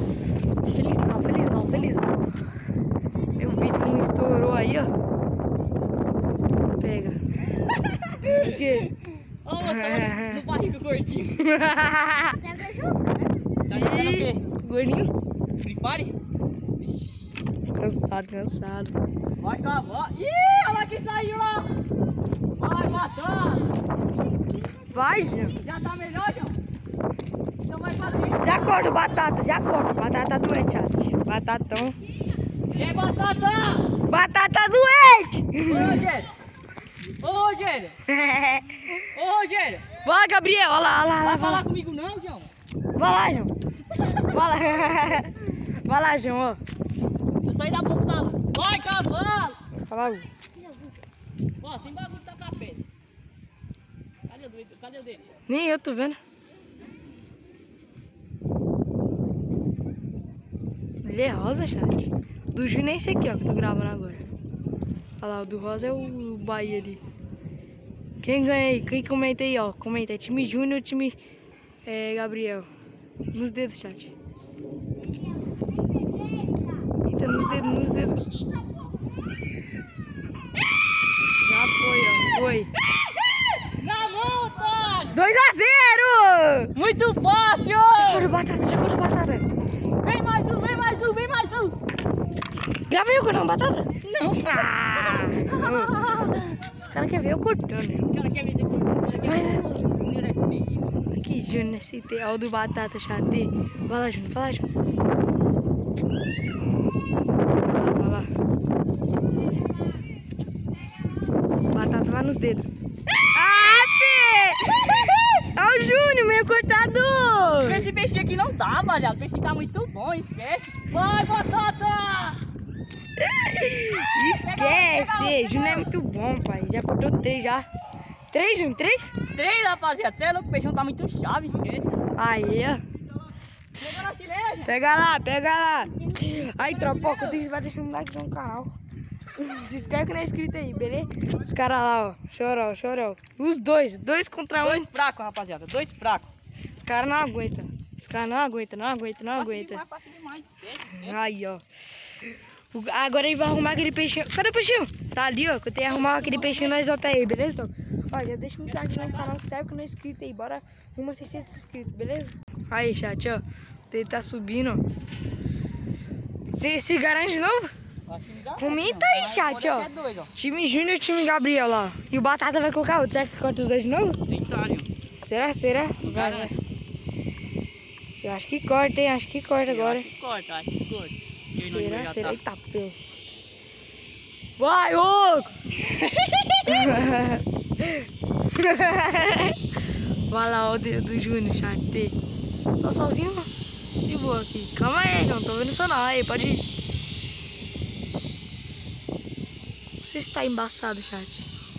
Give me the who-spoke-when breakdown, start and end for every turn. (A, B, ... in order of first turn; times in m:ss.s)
0:00.6-0:02.3 A
0:03.4-0:04.9 A
0:06.8-0:07.2 A
0:07.8-0:11.5 B
0:08.2-0:08.9 A
0:09.6-0:10.4 A
0:11.4-0:12.4 A
0:12.4-0:14.4 B
0:13.7-0:15.1 A
0:15.6-0:16.1 B
0:17.8-0:18.9 A
0:19.4-0:21.7 B
0:22.6-0:23.7 B
0:24.9-0:25.6 A
0:25.5-0:26.6 B
0:27.7-0:28.7 B
0:28.4-0:32.0 A
0:32.7-0:33.9 B
0:34.1-0:36.0 A
0:35.7-0:36.3 B
0:37.2-0:38.0 B
0:38.1-0:39.1 A
0:39.1-0:39.8 B
0:40.0-0:41.6 A
0:41.2-0:42.5 B
0:43.0-0:43.5 A
0:44.0-0:44.3 B
0:44.3-0:46.6 A
0:47.4-0:49.6 B
0:49.8-0:50.3 A
0:51.6-0:52.8 B
0:54.3-0:55.3 B
0:55.5-0:56.2 A
1:01.0-1:04.2 A
1:05.2-1:07.0 A
1:08.2-1:11.2 A
1:11.8-1:12.7 A
1:13.3-1:14.1 A
1:17.0-1:18.4 A
1:21.4-1:22.7 A
1:22.9-1:25.2 B
1:25.1-1:26.7 A
1:26.7-1:28.3 B
1:27.9-1:29.4 A
1:30.0-1:31.8 B
1:32.9-1:36.0 A
1:34.0-1:36.6 B
1:36.6-1:38.0 A
1:38.1-1:40.9 B
1:39.2-1:39.8 A
1:41.0-1:44.7 A
1:47.6-1:48.3 A
1:51.7-1:52.7 A
1:53.3-1:57.9 A
1:57.6-2:02.4 B
2:03.2-2:07.7 A
2:04.4-2:05.9 B
2:08.3-2:09.1 A
2:09.3-2:11.9 B
2:12.2-2:12.8 A
2:13.8-2:14.7 B
2:13.8-2:14.0 A
2:14.6-2:18.7 A
2:16.5-2:17.4 B
2:19.3-2:24.9 A
2:24.6-2:26.3 B
2:26.8-2:29.8 A
2:29.3-2:31.2 B
2:30.9-2:31.6 A
2:32.7-2:44.8 A
2:35.8-2:36.8 B
2:38.7-2:39.3 B
2:46.5-2:47.7 A
2:48.1-2:50.3 B
2:48.5-2:54.2 A
2:54.3-2:54.9 B
2:55.2-2:56.5 A
2:56.0-2:56.5 B
2:58.2-3:00.1 A
2:59.6-3:02.4 B
3:01.6-3:03.0 A
3:04.6-3:05.6 A
3:06.2-3:06.7 B
3:06.6-3:09.6 A
3:10.3-3:12.2 A
3:12.8-3:13.5 A
3:14.0-3:16.7 A
3:20.0-3:21.5 A